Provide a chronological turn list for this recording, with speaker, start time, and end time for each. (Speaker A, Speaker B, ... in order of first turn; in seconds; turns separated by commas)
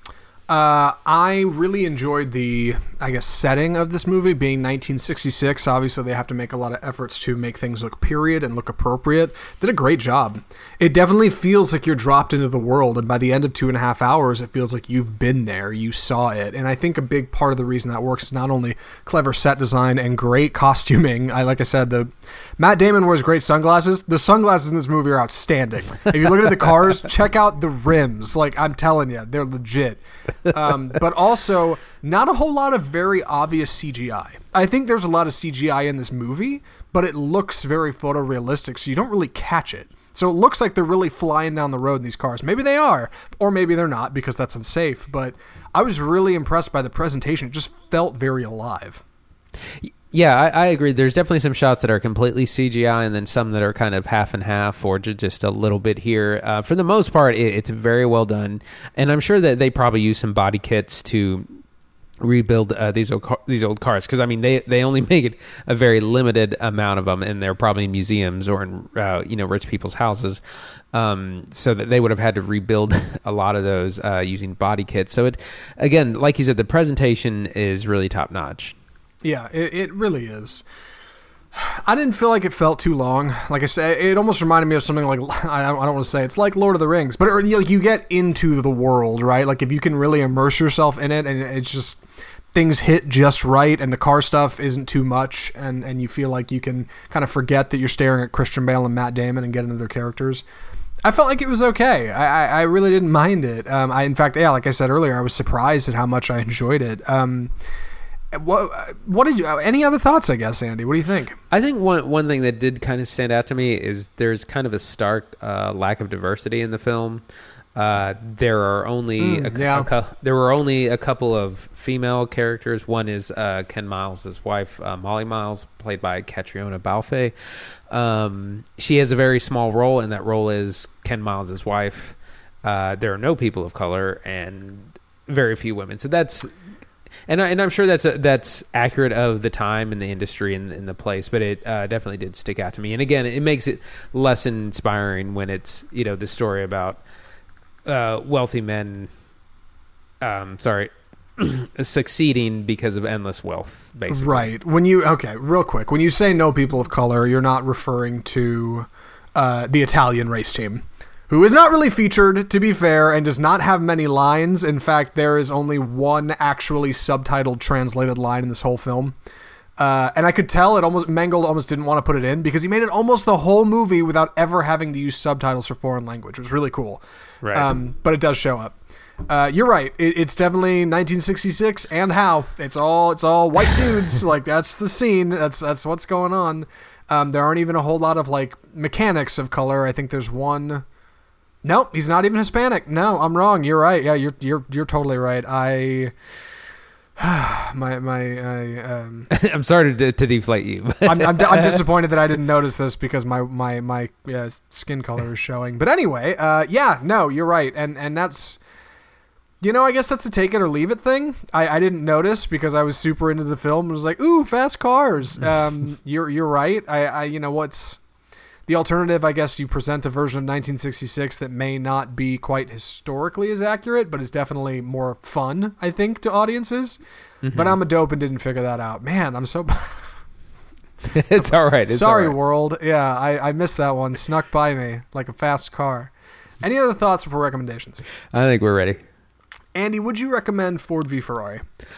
Speaker A: 0.5-49.0, Speaker B: 49.8-61.6, Speaker B: 62.2-70.4, Speaker B: 70.9-78.7, Speaker A: 79.2-80.6, Speaker A: 81.5-92.0, Speaker A: 92.5-100.4, Speaker A: 101.0-107.5, Speaker A: 108.3-111.4, Speaker B: 111.5-117.2, Speaker B: 117.7-127.3, Speaker A: 119.2-119.9, Speaker B: 127.9-136.5, Speaker B: 137.3-147.0, Speaker B: 147.8-149.1, Speaker B: 150.2-154.5, Speaker A: 154.1-169.1, Speaker A: 169.8-178.8, Speaker B: 177.4-177.7, Speaker A: 179.3-190.8, Speaker A: 191.6-196.1, Speaker A: 197.2-199.3, Speaker B: 199.3-201.8, Speaker A: 201.0-208.6, Speaker A: 209.6-218.0, Speaker A: 218.7-227.0, Speaker B: 227.4-227.8, Speaker A: 227.5-230.1, Speaker B: 231.0-232.3, Speaker A: 231.3-236.1, Speaker A: 236.6-238.0, Speaker B: 238.3-239.0, Speaker A: 239.7-241.6